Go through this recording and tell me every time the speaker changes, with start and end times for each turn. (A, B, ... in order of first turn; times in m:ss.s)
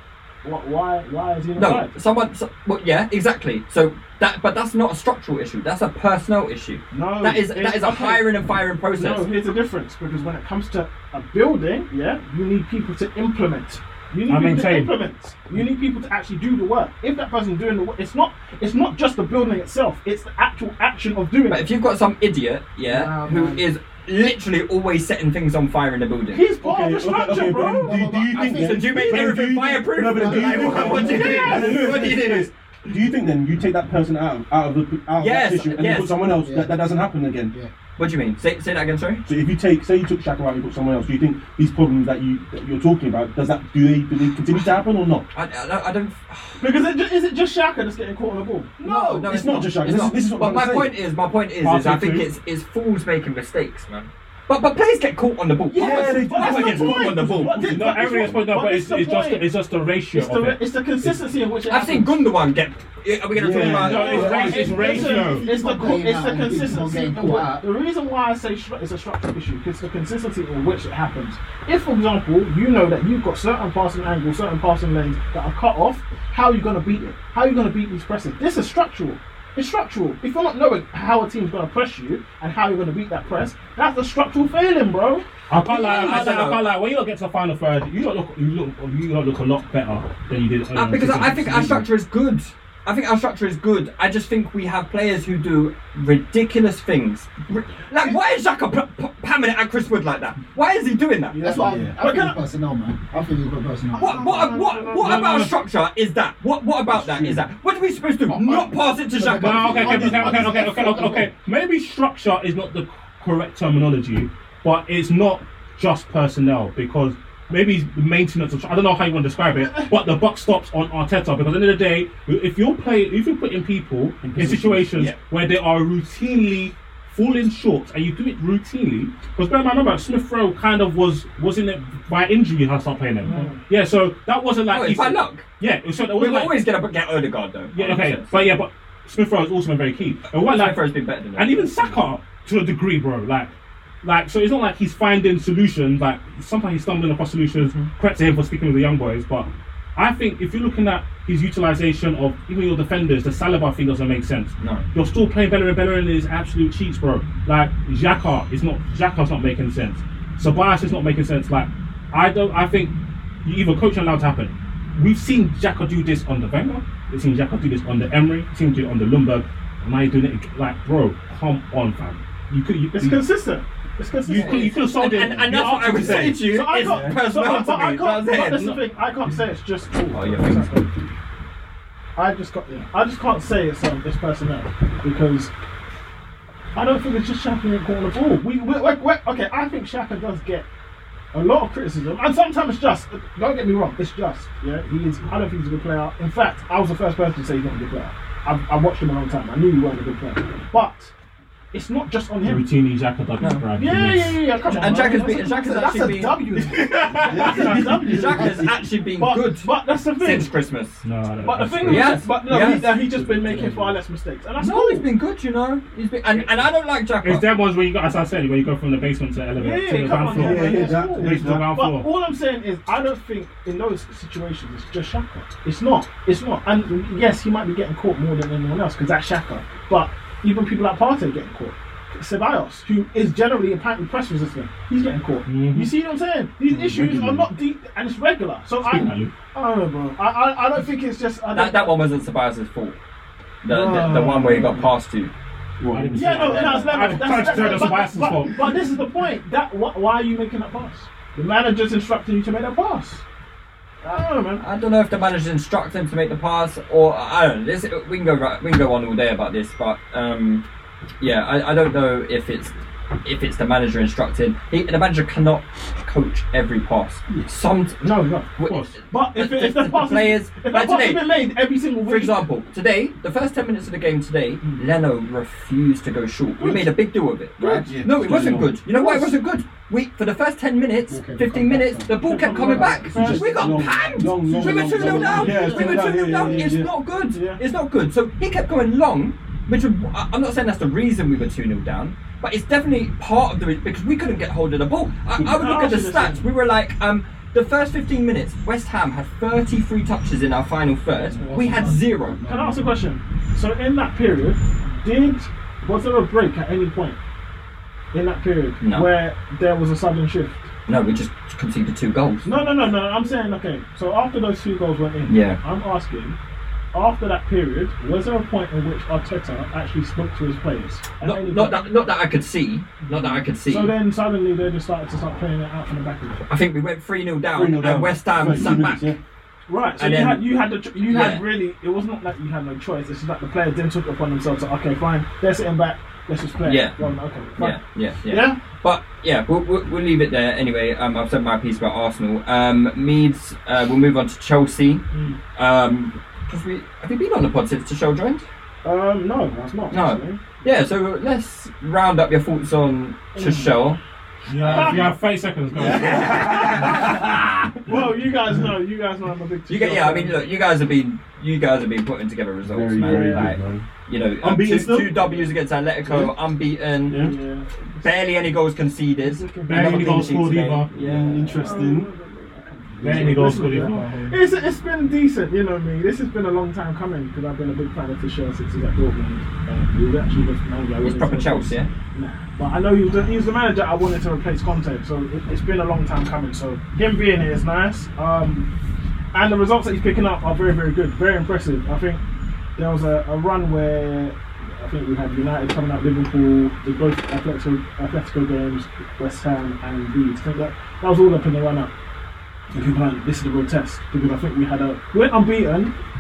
0:00.4-0:01.9 A
0:01.6-0:09.3 B
0:06.9-0:08.4 A
0:08.9-0:21.7 A
0:14.3-0:14.9 C
0:21.5-0:26.4 B
0:22.9-0:23.6 D
0:26.3-0:28.0 A
0:26.6-0:37.6 E
0:27.2-0:32.1 D
0:28.4-0:32.5 B
0:31.1-0:31.8 A
0:35.2-0:36.2 B
0:36.2-0:37.7 D
0:38.0-0:39.3 B
0:39.3-0:45.3 E
0:45.3-0:46.7 B
0:46.6-0:49.9 A
0:48.8-0:57.7 B
0:49.2-0:51.0 E
0:51.6-0:52.3 C
0:55.7-0:59.5 A
0:55.8-0:58.1 E
0:57.7-1:00.6 C
1:00.1-1:02.3 A
1:01.7-1:04.6 B
1:03.3-1:05.2 E
1:03.6-1:25.2 A
1:03.8-1:05.5 C
1:04.5-1:07.7 D
1:25.5-1:31.7 C
1:25.6-1:26.6 B
1:25.9-1:26.3 A
1:30.7-1:41.4 B
1:31.5-1:31.8 E
1:41.3-1:42.4 A
1:41.4-1:44.6 D
1:41.6-1:42.0 E
1:43.9-1:45.5 A
1:44.0-1:50.0 B
1:45.0-1:45.5 C
1:46.9-1:47.4 E
1:48.3-1:51.3 D
1:49.4-2:16.6 C
1:49.4-1:50.6 E
2:04.2-2:05.2 E
2:13.2-2:13.6 A
2:14.7-2:15.5 B
2:16.2-2:18.5 B
2:17.7-2:20.8 C
2:20.3-2:22.0 B
2:21.4-2:23.5 C
2:24.0-2:53.2 C
2:34.6-2:34.9 B
2:52.9-2:54.8 A
2:54.2-2:56.4 C
2:54.3-2:58.8 B
2:55.8-2:57.2 E
2:56.4-3:01.0 A
3:00.1-3:00.8 B
3:02.2-3:05.5 A
3:06.8-3:10.7 A
3:11.3-3:21.1 A
3:21.7-3:22.7 A
3:22.5-3:24.4 C
3:23.4-3:23.6 B
3:23.7-3:30.6 A
3:24.6-3:26.4 B
3:26.7-3:27.8 C
3:27.2-3:28.9 E
3:27.5-3:31.0 B
3:31.0-3:32.2 C
3:31.4-3:35.1 A
3:31.8-3:34.0 E
3:31.8-3:32.9 B
3:34.6-3:37.5 B
3:37.2-3:42.1 C
3:39.6-4:02.1 A
3:40.2-3:41.7 E
3:55.5-3:55.9 C
3:56.7-3:57.5 E
3:58.9-3:59.3 C
4:01.5-4:03.0 B
4:03.6-4:05.3 B
4:03.7-4:04.9 A
4:05.8-4:07.0 E
4:05.9-4:08.6 C
4:06.2-4:13.2 A
4:06.5-4:06.9 B
4:14.0-4:14.6 A
4:14.6-4:20.6 B
4:21.2-4:22.7 B
4:23.2-4:28.0 B
4:28.0-4:28.5 A
4:28.6-4:31.3 B
4:28.6-4:29.0 C
4:29.1-4:32.5 A
4:32.0-5:02.4 B
4:34.6-4:34.9 A
4:36.6-4:36.9 A
4:37.6-4:38.8 E
4:38.9-4:39.3 A
4:41.1-4:43.9 D
4:42.2-4:43.9 A
4:43.2-4:46.9 E
4:44.4-4:45.5 D
4:44.5-4:47.6 A
4:55.4-4:56.4 A
5:01.3-5:02.9 D
5:01.3-5:07.2 A
5:08.1-5:10.7 A
5:08.8-5:09.1 B
5:10.9-5:12.5 B
5:12.4-5:16.4 A
5:15.3-5:15.6 B
5:16.9-5:21.9 A
5:21.2-5:24.0 B
5:23.0-5:26.4 A
5:26.5-5:29.1 B
5:27.5-5:29.2 E
5:29.7-5:38.6 A
5:30.0-5:31.5 B
5:36.6-5:37.0 B
5:37.6-5:45.0 B
5:45.1-5:45.4 A
5:45.6-5:48.4 B
5:48.8-5:50.4 A
5:49.9-5:54.0 B
5:53.4-5:53.8 A
5:54.5-5:55.0 E
5:54.6-5:55.1 B
5:54.6-5:55.1 A
5:54.7-5:57.2 C
5:55.8-5:57.2 B
5:55.8-5:57.3 A
5:57.9-6:00.6 A
5:57.9-5:58.7 E
5:59.7-6:07.2 B
6:02.6-6:03.9 E
6:03.0-6:03.6 A
6:04.4-6:05.4 E
6:07.1-6:07.4 E
6:07.1-6:08.3 A
6:08.0-6:11.6 B
6:09.2-6:10.4 A
6:09.7-6:10.9 C
6:09.7-6:10.3 E
6:10.9-6:12.1 E
6:11.3-6:28.7 A
6:13.0-6:14.3 E
6:13.0-6:14.1 C
6:21.0-6:21.9 B
6:29.3-6:32.2 A
6:32.8-6:41.9 A
6:42.7-6:45.9 A